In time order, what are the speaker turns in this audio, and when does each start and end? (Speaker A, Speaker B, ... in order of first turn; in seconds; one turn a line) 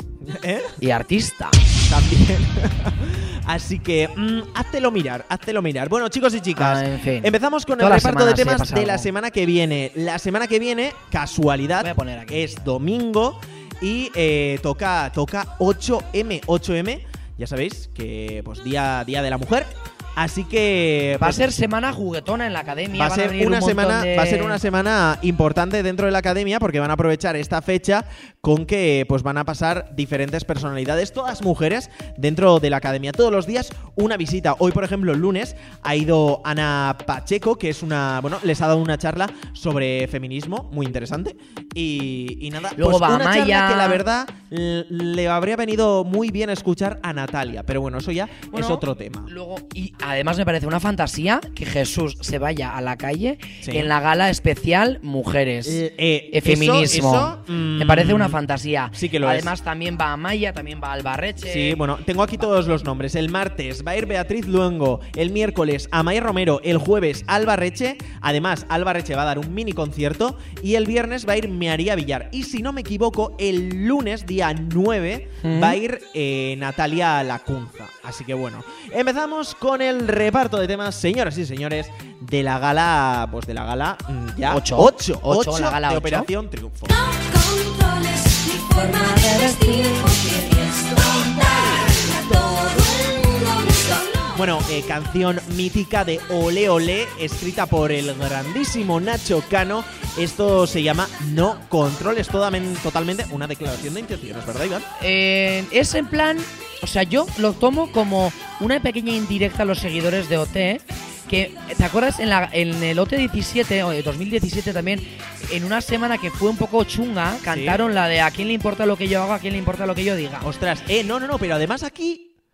Speaker A: 0.2-0.8
Speaker B: 0.8-1.6
Speaker A: 1.9-21.5
Speaker B: 6.5-9.1
Speaker B: 11.8-12.7
Speaker B: 21.2-24.6
Speaker A: 22.9-49.3
Speaker B: 42.8-44.0
Speaker B: 48.5-61.8
Speaker A: 53.6-53.9
Speaker A: 55.6-58.4
Speaker A: 58.9-59.5
Speaker A: 61.5-87.0
Speaker B: 75.4-75.8
Speaker B: 84.5-86.3
Speaker C: 86.9-94.3
Speaker A: 94.3-104.9
Speaker B: 105.0-120.5
Speaker A: 117.5-117.8
Speaker A: 120.4-122.3